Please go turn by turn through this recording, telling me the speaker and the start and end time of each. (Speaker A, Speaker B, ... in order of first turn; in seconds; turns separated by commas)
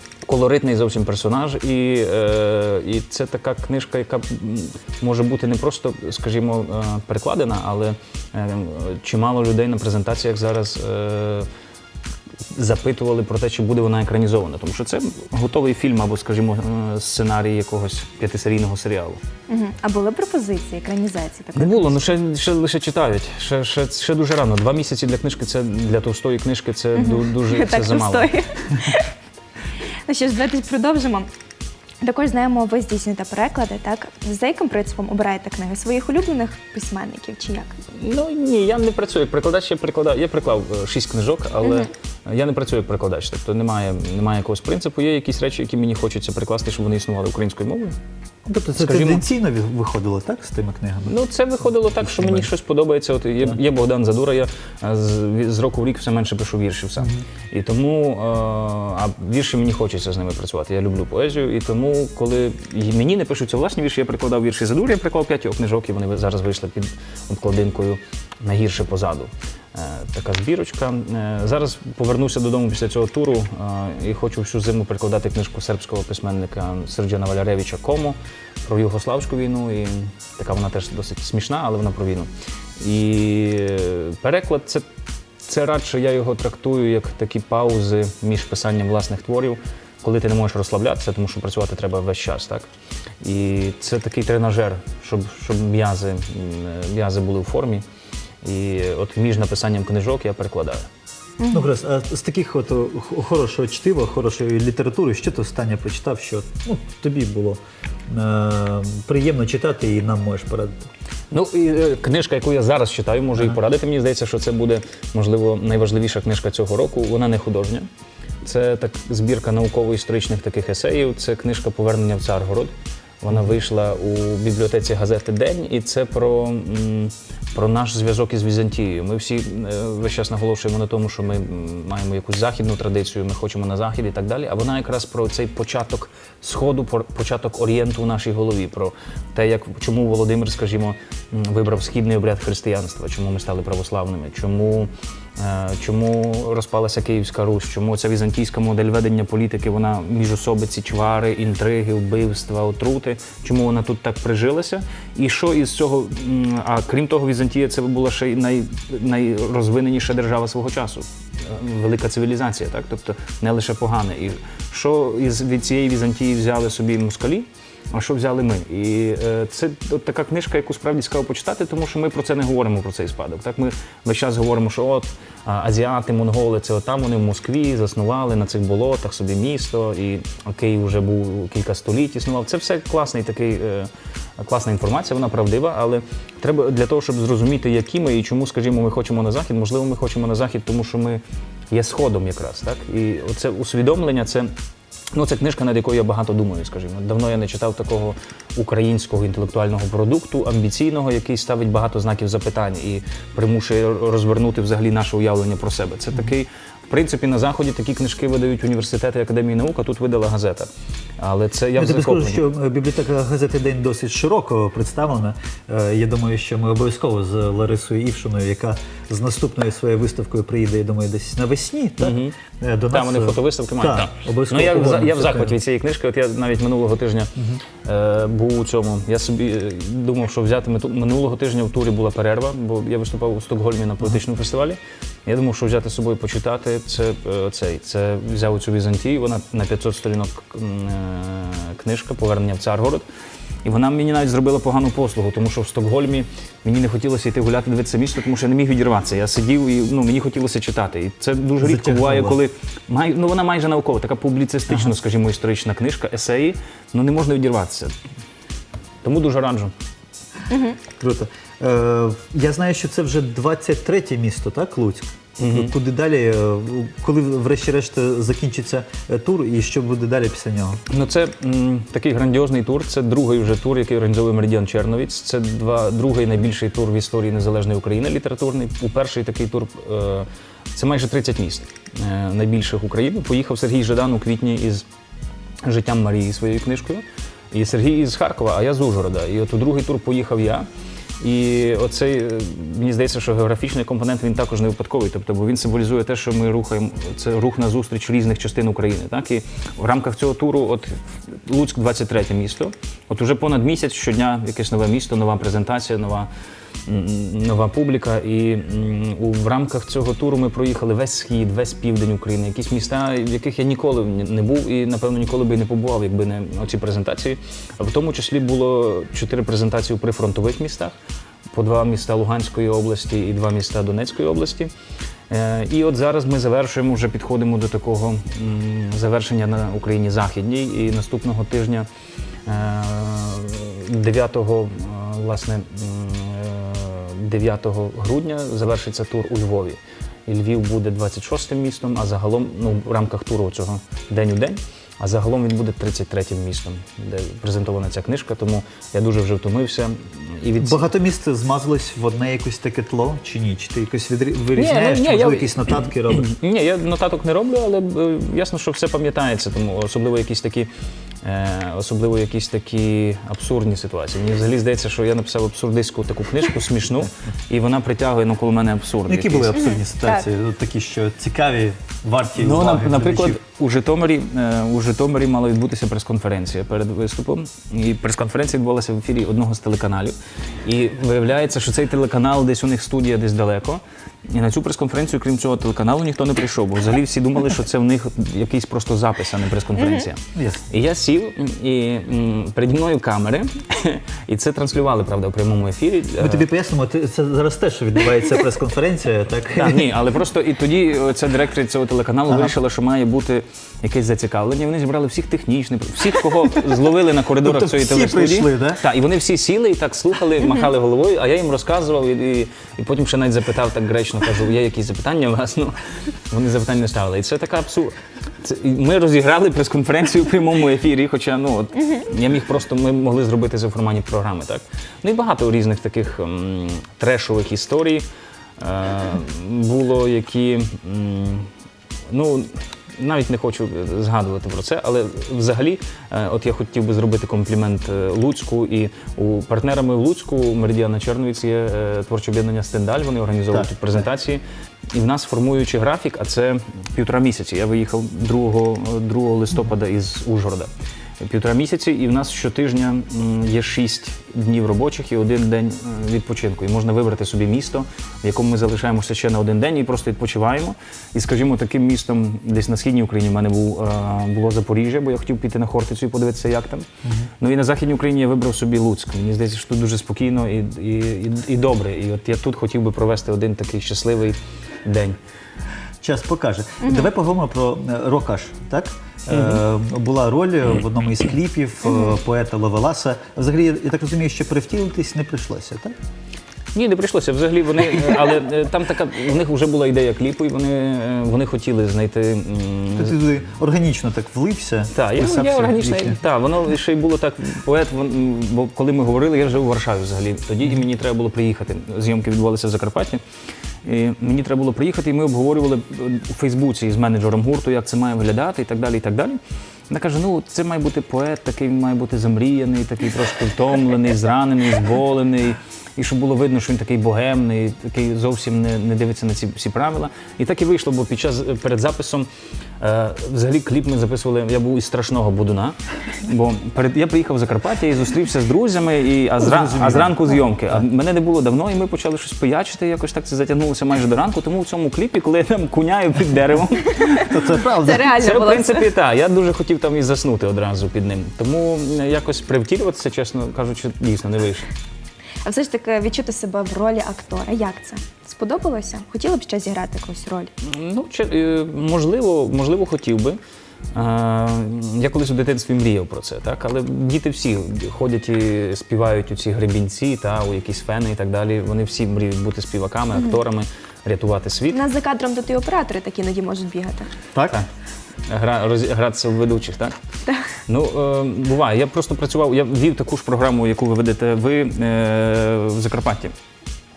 Speaker A: 0.2-11.5, Speaker A: 12.5-19.2, Speaker B: 19.5-21.9, Speaker A: 21.6-28.3, Speaker B: 26.9-29.1, Speaker B: 30.1-31.3, Speaker B: 32.0-37.8, Speaker A: 37.9-48.0, Speaker B: 41.6-41.9, Speaker C: 48.5-51.1, Speaker A: 48.7-49.2, Speaker A: 51.0-84.9, Speaker C: 52.0-52.5, Speaker A: 85.4-92.7, Speaker A: 93.2-97.8, Speaker A: 98.4-100.9, Speaker B: 101.4-101.7, Speaker C: 101.5-110.9, Speaker A: 111.3-117.9, Speaker A: 118.4-194.5, Speaker A: 195.1-212.4, Speaker C: 211.8-225.6, Speaker A: 222.0-222.3, Speaker A: 222.9-243.0, Speaker A: 243.6-257.9, Speaker C: 251.6-252.4, Speaker A: 259.0-259.7, Speaker B: 260.5-260.8, Speaker C: 261.0-270.8, Speaker A: 265.4-265.7, Speaker A: 270.9-284.8, Speaker A: 285.6-290.7, Speaker A: 291.2-306.3, Speaker A: 306.9-320.9, Speaker A: 321.5-324.7, Speaker A: 325.3-331.9, Speaker A: 332.4-350.8, Speaker C: 350.6-356.3, Speaker A: 354.5-360.7, Speaker A: 361.2-369.7, Speaker C: 369.1-373.4, Speaker A: 372.4-396.4, Speaker C: 390.3-390.6, Speaker C: 396.2-399.9, Speaker A: 399.5-415.8, Speaker C: 407.4-408.8, Speaker A: 416.3-428.0, Speaker A: 428.6-431.5, Speaker A: 432.1-444.4, Speaker A: 444.9-466.9, Speaker A: 467.4-475.2, Speaker C: 476.0-485.9, Speaker A: 479.3-479.6, Speaker A: 486.7-493.2, Speaker C: 492.9-496.2, Speaker A: 494.9-503.2, Speaker A: 503.8-509.4, Speaker A: 509.9-522.3, Speaker A: 522.8-544.7, Speaker C: 529.4-530.2, Speaker C: 537.2-538.1, Speaker B: 537.8-538.9, Speaker B: 545.4-550.5, Speaker A: 550.6-553.4, Speaker A: 553.9-564.8, Speaker B: 564.7-567.1, Speaker C: 567.3-567.6, Speaker A: 568.3-570.0, Speaker A: 570.7-576.3